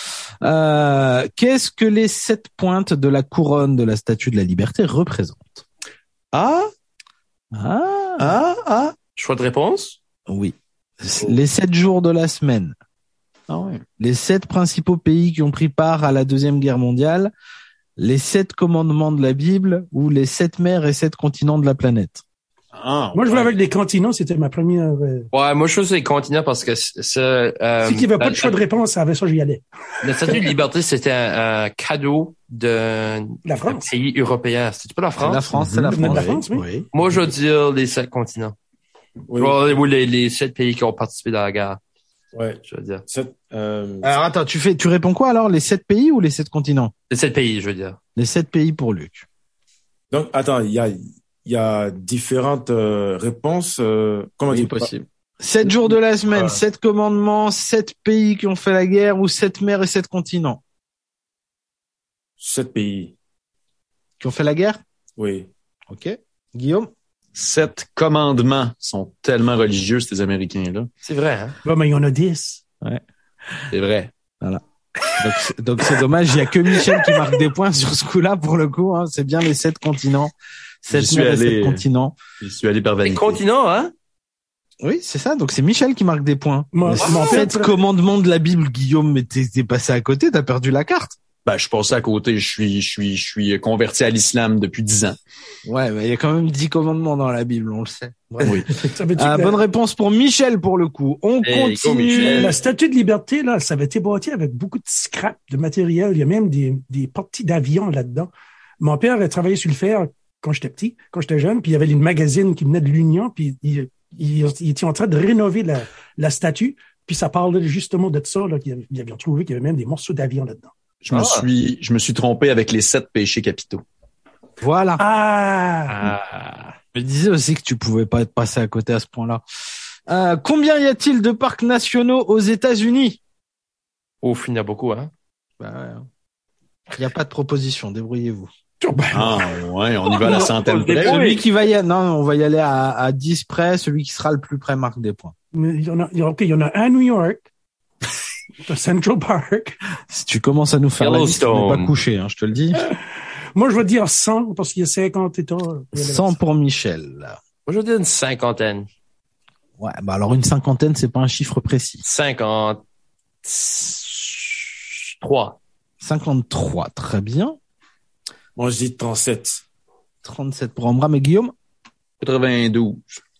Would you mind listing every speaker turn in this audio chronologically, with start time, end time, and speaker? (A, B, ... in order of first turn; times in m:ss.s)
0:00.4-0:05.6 A
0:06.3-0:06.7 B
0:07.5-0:08.4 A
0:08.2-0:08.9 B
0:09.2-0:10.0 C
0:10.3-0:12.8 A
0:13.5-0:13.8 B
0:14.0-0:17.3 A
0:18.0-0:22.2 A
0:22.7-0:23.5 B
0:23.1-0:25.3 D
0:25.3-0:28.6 C
0:27.8-0:29.6 D
0:30.0-0:35.5 C
0:30.2-0:30.5 D
0:33.4-0:33.9 D
0:35.2-0:36.9 A
0:35.5-0:36.2 B
0:35.9-0:36.7 D
0:36.9-0:38.5 C
0:39.3-0:39.6 E
0:39.4-0:41.8 C
0:42.3-0:44.1 E
0:42.6-0:43.0 C
0:44.0-0:46.9 A
0:47.1-0:48.0 C
0:48.2-0:49.2 A
0:50.1-0:54.9 E
0:54.5-0:55.0 B
0:55.4-1:00.6 A
1:02.4-1:03.1 E
1:04.2-1:04.8 A
1:05.2-1:05.5 E
1:05.9-1:06.9 A
1:07.4-1:10.9 B
1:11.0-1:11.6 C
1:11.6-1:12.6 D
1:13.7-1:14.1 B
1:15.2-1:20.3 A
1:20.8-1:22.2 A
1:20.9-1:21.8 B
1:22.4-1:23.4 B
1:23.0-1:23.9 C
1:24.8-1:31.2 A
1:26.7-1:27.8 D
1:27.0-1:27.4 C
1:31.5-1:35.2 B
1:35.6-1:38.6 A
1:38.4-1:38.7 B
1:38.9-1:39.6 D
1:39.2-1:42.6 A
1:41.4-1:42.6 C
1:42.1-1:48.3 D
1:48.8-2:00.7 D
2:01.0-2:03.8 B
2:01.1-2:01.5 C
2:04.6-2:05.0 A
2:05.0-2:06.1 D
2:05.9-2:06.8 C
2:06.9-2:09.4 A
2:10.1-2:13.2 A
2:14.2-2:15.1 C
2:15.6-2:16.0 A
2:16.9-2:18.5 A
2:18.8-2:20.5 D
2:19.1-2:21.2 B
2:20.2-2:21.4 C
2:21.0-2:25.3 A
2:25.5-2:27.4 D
2:28.6-2:29.8 D
2:30.1-2:32.8 A
2:31.0-2:31.9 C
2:33.5-2:36.4 D
2:35.9-2:37.4 A
2:37.7-2:38.9 C
2:39.8-2:42.0 A
2:42.0-2:42.8 C
2:43.4-2:45.6 C
2:46.0-2:47.6 A
2:48.6-2:49.6 E
2:50.2-2:51.5 A
2:52.2-2:53.2 B